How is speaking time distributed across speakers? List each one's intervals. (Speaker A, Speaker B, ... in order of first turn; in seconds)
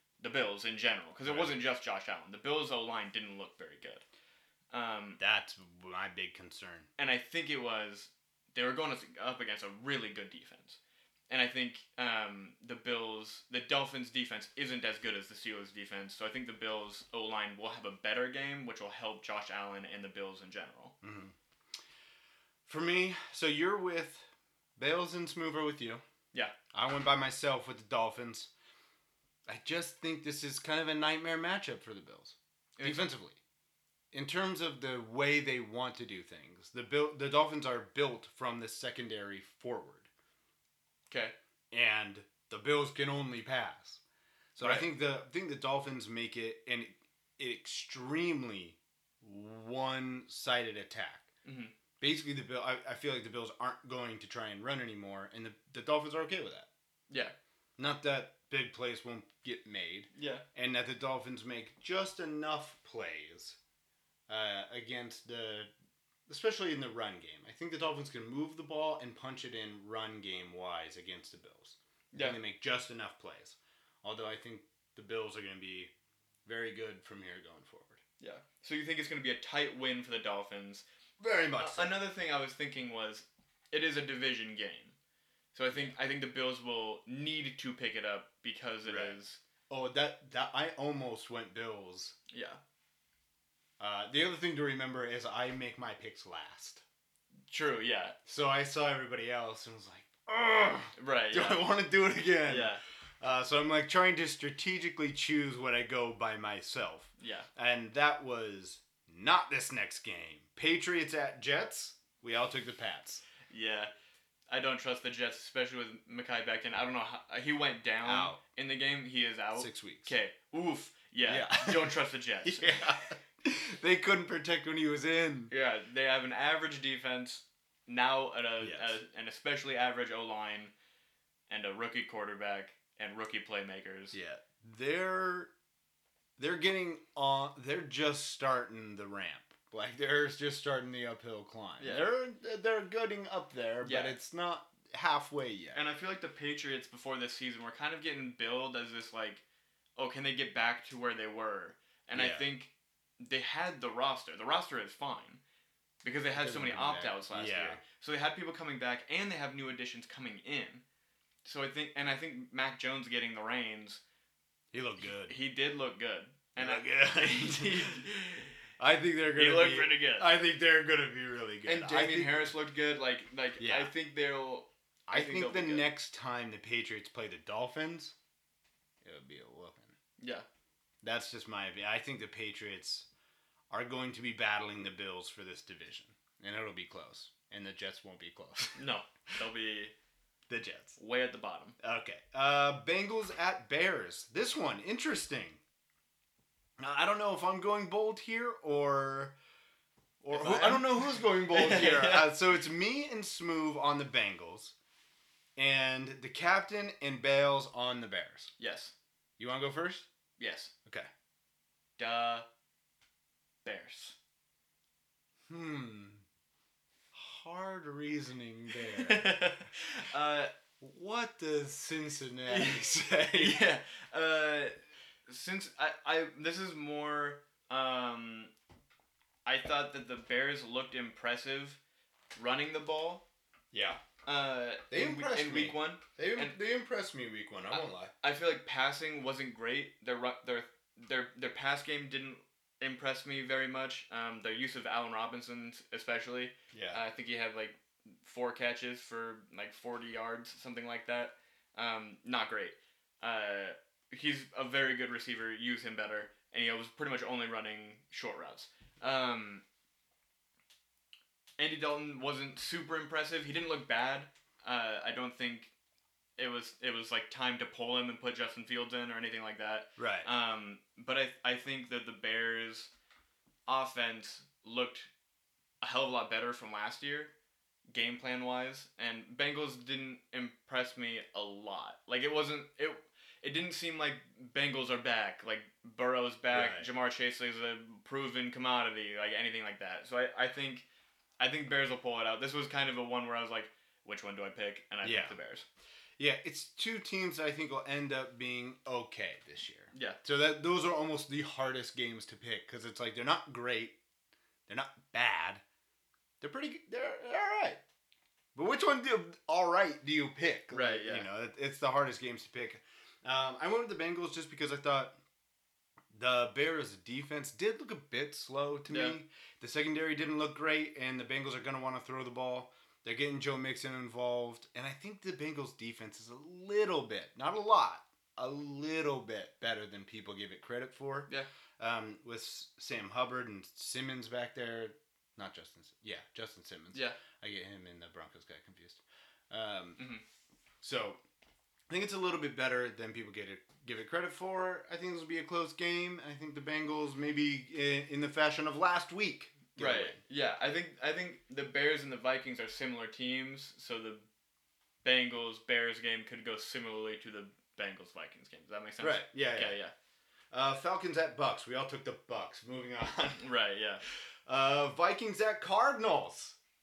Speaker A: 0.2-4.0, 4.7-5.2, 7.0-10.8, 11.3-20.9, 32.8-33.1, 44.6-44.9, 51.4-51.7, 57.1-57.3, 60.1-60.4, 72.1-72.4, 78.2-80.8, 81.6-84.9, 85.5-89.4, 92.3-92.6, 97.5-98.2, 101.0-101.7, 102.4-102.8, 107.2-107.5, 113.5-113.9, 114.5-123.1, 125.5-130.7, 131.5-134.2, 141.8-142.1, 143.8-144.2, 145.7-149.4, 149.9-155.4, 156.0-160.8, 161.4-164.0, 165.3-168.5, 169.3-170.3, 171.6-175.9, 180.2-180.4, 188.8-189.9, 191.0-191.8, 200.3-202.4, 208.6-208.9, 210.4-210.7, 212.0-212.4, 213.6-214.2, 219.0-220.5, 222.5-224.8, 225.3-228.5, 229.4-231.8, 232.3-233.2, 234.2-236.6, 237.7-259.6, 261.6-265.7, 266.4-272.9, 273.7-275.1, 275.8-277.3, 277.9-290.9, 291.4-295.6, 299.9-300.2, 310.7-311.3, 318.9-319.2, 340.0-340.2, 349.8-354.2, 355.0-359.9, 363.4-364.0
Speaker B: 1.2-1.6, 5.2-6.9, 21.0-21.3, 22.6-26.0, 26.7-28.5, 29.5-33.4, 34.1-40.1, 41.7-44.0, 44.5-51.3, 52.0-56.7, 57.8-63.6, 64.3-65.7, 66.3-75.9, 76.4-78.0, 81.2-82.0, 88.8-89.2, 89.7-92.1, 93.8-96.8, 98.2-113.2, 118.0-118.4, 119.5-120.1, 121.2-125.5, 128.6-129.0, 134.1-135.5, 136.4-145.8, 152.1-152.5, 156.3-157.8, 164.7-165.4, 166.6-168.1, 168.8-172.5, 173.6-173.9, 175.1-178.1, 179.0-179.9, 181.0-183.1, 183.7-188.8, 190.5-191.0, 191.8-195.6, 196.8-199.3, 200.2-204.8, 205.6-208.5, 209.4-210.1, 215.5-216.2, 217.1-219.5, 220.8-223.6, 233.7-234.0, 234.9-238.1, 246.7-247.0, 270.0-270.3, 286.5-286.9, 295.0-295.4, 296.2-303.9, 304.7-305.6, 306.4-307.8, 308.5-315.1, 316.1-340.1, 340.8-341.2, 341.9-350.2, 359.0-359.8, 360.5-363.5, 364.4-366.6